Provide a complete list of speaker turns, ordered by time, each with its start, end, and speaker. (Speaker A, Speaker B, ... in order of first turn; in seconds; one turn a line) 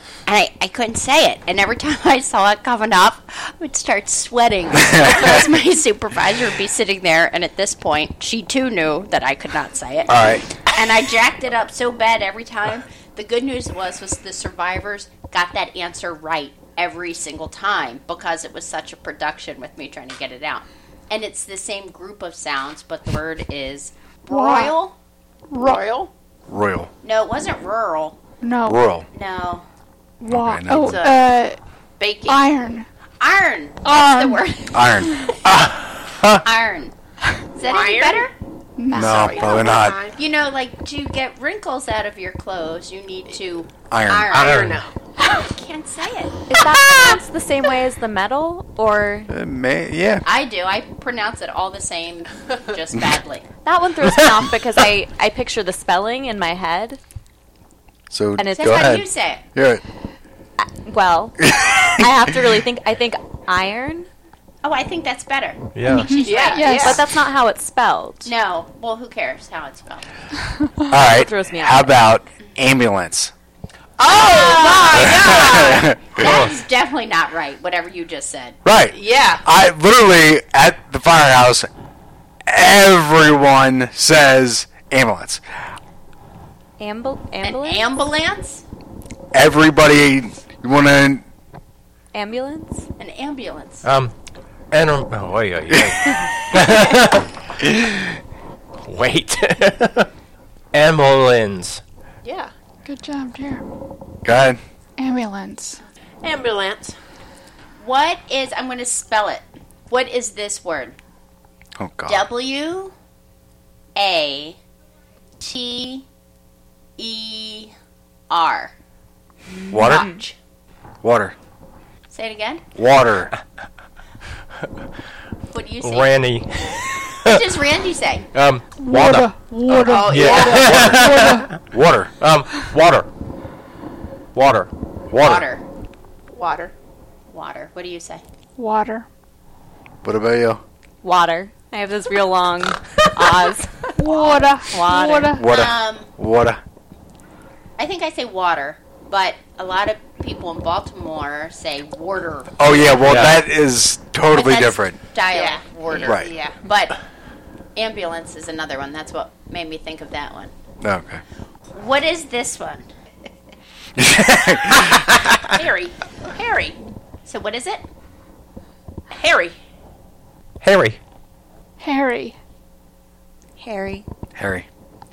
Speaker A: 0.3-10.1
Speaker B: 5.0-5.4
Speaker B: 10.1-10.4
Speaker A: 10.7-24.9
Speaker C: 24.3-24.8
Speaker C: 25.5-25.9
Speaker D: 25.6-26.1
Speaker B: 26.5-26.9
Speaker A: 27.0-28.2
Speaker C: 28.4-28.8
Speaker B: 28.6-29.1
Speaker A: 29.1-29.7
Speaker C: 30.2-31.6
Speaker B: 30.3-31.0
Speaker D: 30.7-31.4
Speaker D: 32.0-32.5
Speaker C: 32.2-32.9
Speaker A: 33.2-35.1
Speaker C: 33.9-34.4
Speaker B: 34.7-36.4
Speaker A: 36.4-36.9
Speaker A: 37.5-38.3
Speaker D: 37.6-38.3
Speaker C: 38.8-39.7
Speaker B: 38.9-40.0
Speaker D: 39.0-40.2
Speaker A: 40.1-46.4
Speaker B: 43.9-44.8
Speaker D: 44.3-44.9
Speaker E: 46.5-49.3
Speaker B: 49.3-50.2
Speaker A: 50.2-53.5
Speaker E: 53.6-57.0
Speaker B: 58.1-59.8
Speaker E: 58.4-58.9
Speaker A: 58.6-59.4
Speaker E: 60.6-64.1
Speaker B: 61.6-61.9
Speaker A: 64.6-66.8
Speaker F: 65.8-66.1
Speaker C: 65.9-67.0
Speaker D: 66.2-67.0
Speaker E: 66.8-68.3
Speaker A: 68.2-70.1
Speaker B: 70.9-73.3
Speaker E: 71.0-71.9
Speaker D: 74.0-75.9
Speaker A: 74.1-75.3
Speaker B: 75.1-76.3
Speaker A: 76.1-78.6
Speaker F: 76.2-76.5
Speaker B: 78.7-81.7
Speaker D: 78.9-79.4
Speaker B: 82.5-85.4
Speaker E: 86.8-87.9
Speaker A: 87.4-88.6
Speaker B: 89.3-91.2
Speaker E: 92.1-92.9
Speaker A: 93.0-93.9
Speaker F: 93.8-94.1
Speaker F: 94.7-97.7
Speaker B: 95.7-96.0
Speaker F: 98.8-100.1
Speaker F: 100.7-101.8
Speaker D: 102.2-102.5
Speaker C: 102.9-103.6
Speaker B: 104.2-104.6
Speaker C: 105.0-105.8
Speaker D: 106.2-107.0
Speaker A: 107.8-111.0
Speaker B: 111.8-112.3
Speaker A: 112.1-112.9
Speaker A: 114.0-114.6
Speaker A: 115.4-116.0
Speaker A: 117.0-117.7
Speaker A: 118.3-118.7
Speaker E: 119.7-120.1
Speaker B: 119.7-120.1
Speaker A: 119.9-120.2
Speaker B: 121.0-121.3
Speaker A: 122.1-122.6
Speaker B: 122.8-123.3
Speaker A: 125.5-126.2
Speaker F: 125.8-127.4
Speaker A: 127.3-128.3
Speaker F: 128.3-129.3
Speaker C: 128.8-130.2
Speaker D: 129.8-130.9
Speaker B: 130.1-132.1
Speaker F: 130.1-131.3
Speaker C: 130.8-131.5
Speaker F: 132.2-133.1
Speaker F: 134.3-134.7
Speaker B: 135.1-135.5
Speaker A: 135.2-135.6
Speaker D: 136.3-136.7
Speaker A: 137.3-138.2
Speaker C: 138.6-139.1
Speaker B: 140.0-140.6
Speaker E: 141.0-145.4
Speaker C: 144.0-145.4
Speaker B: 145.4-146.6
Speaker A: 145.4-146.1
Speaker A: 147.8-153.2
Speaker B: 152.6-155.0
Speaker F: 153.0-153.4
Speaker A: 154.3-157.0
Speaker D: 155.3-156.6
Speaker B: 156.0-156.3
Speaker A: 157.8-160.5
Speaker B: 160.8-161.2
Speaker A: 161.7-162.9
Speaker B: 164.0-165.4
Speaker D: 165.0-166.8
Speaker A: 167.2-167.8
Speaker D: 169.1-169.6
Speaker F: 170.6-171.0
Speaker C: 171.8-172.4
Speaker E: 173.6-174.1
Speaker B: 174.3-174.7